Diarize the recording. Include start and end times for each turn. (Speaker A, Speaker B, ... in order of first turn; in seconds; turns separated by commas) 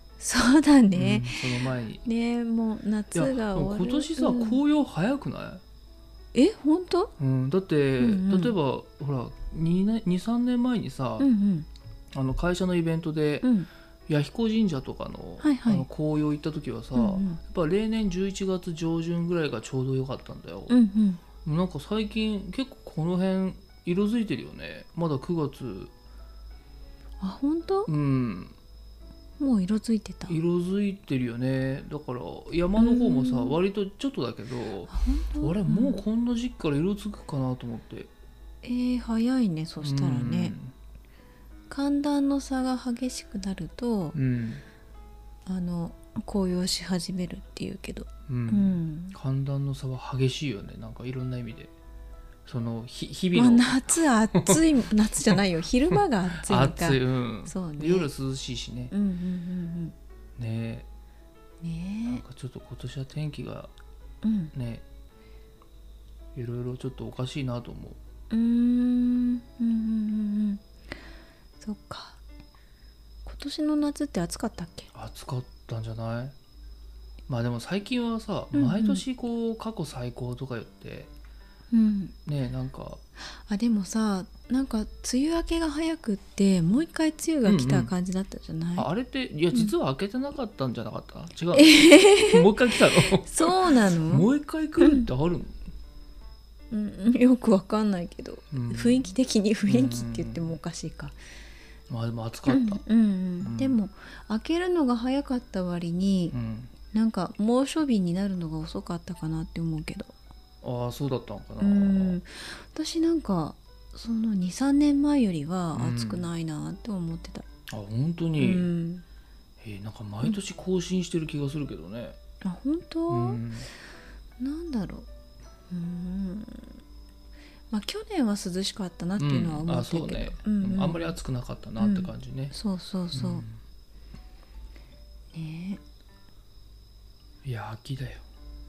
Speaker A: 0.2-4.6, Speaker B: 0.9-2.0, Speaker B: 3.1-5.6, Speaker A: 6.3-7.1, Speaker B: 7.2-11.3, Speaker A: 8.0-8.6, Speaker A: 11.2-11.7, Speaker B: 12.1-13.5, Speaker A: 13.4-13.7, Speaker B: 14.1-20.7, Speaker A: 15.4-15.9, Speaker A: 16.9-17.4, Speaker A: 20.7-21.2, Speaker B: 21.4-25.9, Speaker A: 27.2-27.9, Speaker B: 27.9-28.6, Speaker A: 29.4-30.4, Speaker B: 30.3-38.1, Speaker A: 32.8-33.6, Speaker A: 34.9-36.0, Speaker A: 38.6-40.5, Speaker B: 39.8-40.7, Speaker A: 41.7-44.1, Speaker B: 44.1-44.6, Speaker A: 45.5-49.1, Speaker B: 48.3-51.7, Speaker B: 52.5-54.6, Speaker A: 53.3-58.1, Speaker B: 55.9-58.9, Speaker A: 58.9-60.0, Speaker B: 60.4-60.9, Speaker A: 61.6-62.2, Speaker B: 62.1-63.7, Speaker A: 64.2-64.5, Speaker B: 64.5-64.8, Speaker B: 66.3-68.0, Speaker A: 68.3-70.6, Speaker A: 71.6-72.2, Speaker A: 73.2-74.9, Speaker B: 74.9-76.3, Speaker B: 77.3-81.1, Speaker A: 78.5-79.0, Speaker A: 81.7-82.1, Speaker B: 82.2-83.0, Speaker A: 83.3-88.9, Speaker B: 87.5-87.9, Speaker B: 88.8-95.6, Speaker A: 91.5-94.3, Speaker A: 94.8-95.1, Speaker A: 96.7-101.2, Speaker B: 98.5-99.1, Speaker B: 99.7-100.5, Speaker B: 101.9-102.8, Speaker A: 102.5-106.4, Speaker B: 103.4-103.8, Speaker B: 106.3-106.7, Speaker A: 106.9-110.1, Speaker B: 110.6-112.2, Speaker A: 111.6-117.5, Speaker B: 115.7-116.3, Speaker B: 117.7-118.7, Speaker A: 118.4-119.0, Speaker B: 119.6-122.2, Speaker A: 122.4-123.4, Speaker B: 123.1-123.7, Speaker A: 124.4-125.1, Speaker A: 125.7-126.8, Speaker A: 127.7-131.2, Speaker B: 129.2-132.5, Speaker A: 131.8-133.5, Speaker B: 133.1-133.6, Speaker A: 135.3-135.8, Speaker B: 137.4-138.2